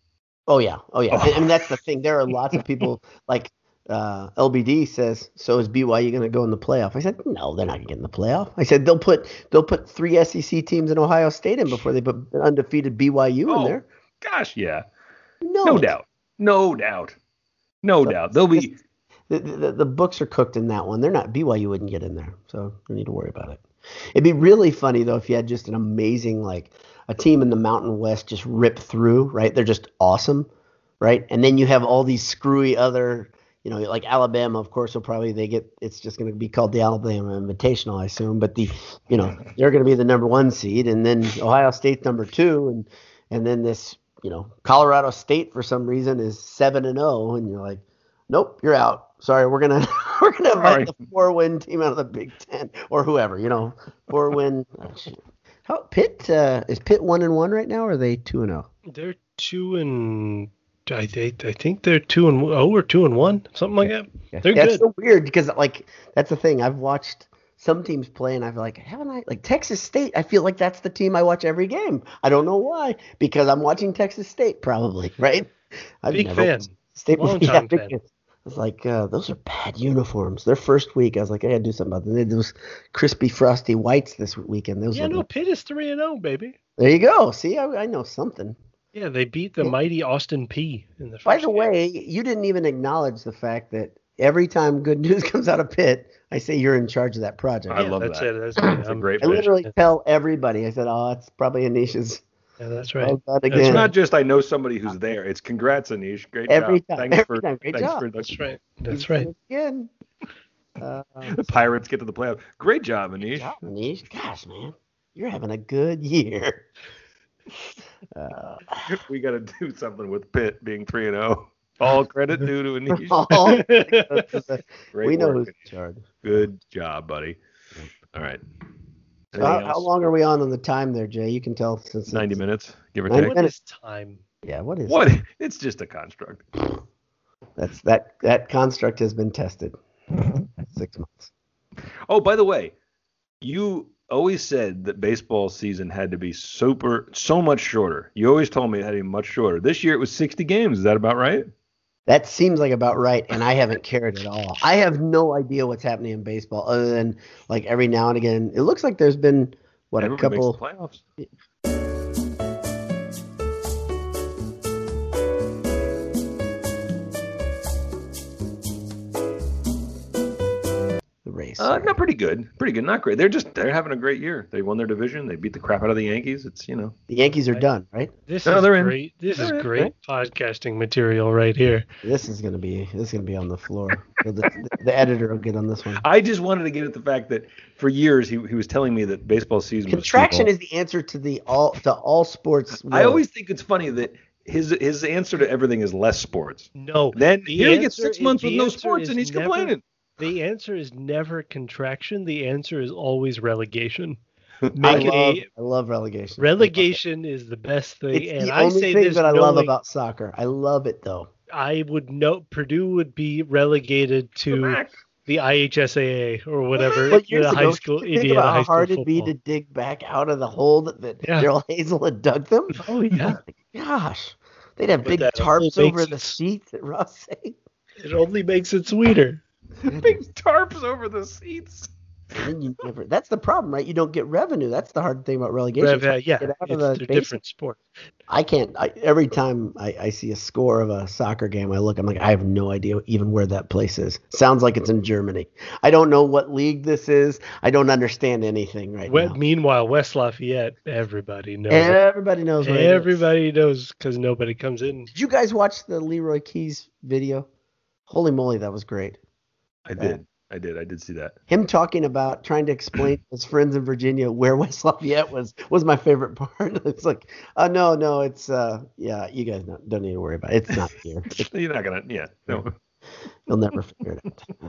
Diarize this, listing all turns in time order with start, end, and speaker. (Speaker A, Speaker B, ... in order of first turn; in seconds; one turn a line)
Speaker A: 0.5-13.9
Speaker B: 1.1-1.5
Speaker B: 13.5-14.8
Speaker A: 15.4-15.9
Speaker B: 15.6-17.2
Speaker B: 17.8-18.8
Speaker A: 18.0-18.7
Speaker A: 19.3-30.5
Speaker A: 31.0-58.7
Speaker B: 50.5-50.9
Speaker C: 58.9-64.8
Speaker A: 64.3-85.2
Speaker C: 76.1-77.9
Speaker C: 84.9-86.5
Speaker A: 86.8-88.6
Speaker C: 88.9-91.7
Speaker A: 91.2-97.8
Speaker B: 97.7-99.5
Speaker C: 97.7-99.7
Speaker A: 98.8-102.2
Speaker C: 102.6-103.9
Speaker A: 103.0-103.9
Speaker B: 103.6-108.4
Speaker A: 106.5-108.0
Speaker C: 108.2-109.3
Speaker A: 108.9-109.9
Speaker A: 110.8-111.5
Speaker B: 111.2-113.6
Speaker A: 113.3-116.7
Speaker A: 118.1-118.9
Speaker B: 118.8-123.5
Speaker A: 122.9-126.0
Speaker C: 123.4-124.4
Speaker B: 124.9-125.5
Speaker B: 126.2-127.4
Speaker B: 128.1-128.4
Speaker B: 129.3-129.9
Speaker A: 129.4-132.4
Speaker B: 132.1-133.3
Speaker A: 133.1-133.5
Speaker C: 133.3-134.2
Speaker A: 134.4-135.0
Speaker B: 134.9-136.4
Speaker A: 137.6-139.8
Speaker A: 140.7-141.3
Speaker B: 142.1-142.7
Speaker B: 143.4-151.5
Speaker A: 152.1-160.6
Speaker B: 160.0-161.0
Speaker A: 171.2-171.9
Speaker B: 171.6-176.9
Speaker A: 177.1-178.1
Speaker C: 178.3-181.8
Speaker B: 178.4-179.9
Speaker A: 182.0-186.0
Speaker B: 186.0-190.5
Speaker A: 189.9-193.2
Speaker B: 192.8-199.8
Speaker C: 196.8-204.2
Speaker B: 204.7-205.1
Speaker C: 204.7-205.5
Speaker A: 204.8-207.0
Speaker C: 206.4-209.7
Speaker A: 208.1-211.3
Speaker C: 211.5-219.3
Speaker B: 214.5-215.0
Speaker A: 217.1-222.8
Speaker C: 221.2-221.5
Speaker C: 222.8-223.4
Speaker A: 223.4-227.6
Speaker C: 225.0-226.3
Speaker C: 228.0-229.4
Speaker B: 229.8-231.9
Speaker A: 229.9-230.2
Speaker A: 232.3-237.3
Speaker C: 235.8-237.8
Speaker A: 238.3-249.4
Speaker C: 249.1-252.0
Speaker A: 251.7-253.2
Speaker C: 252.6-255.1
Speaker A: 255.1-257.5
Speaker A: 258.1-259.2
Speaker B: 259.9-261.4
Speaker A: 261.5-271.5
Speaker B: 271.3-272.7
Speaker A: 273.5-274.4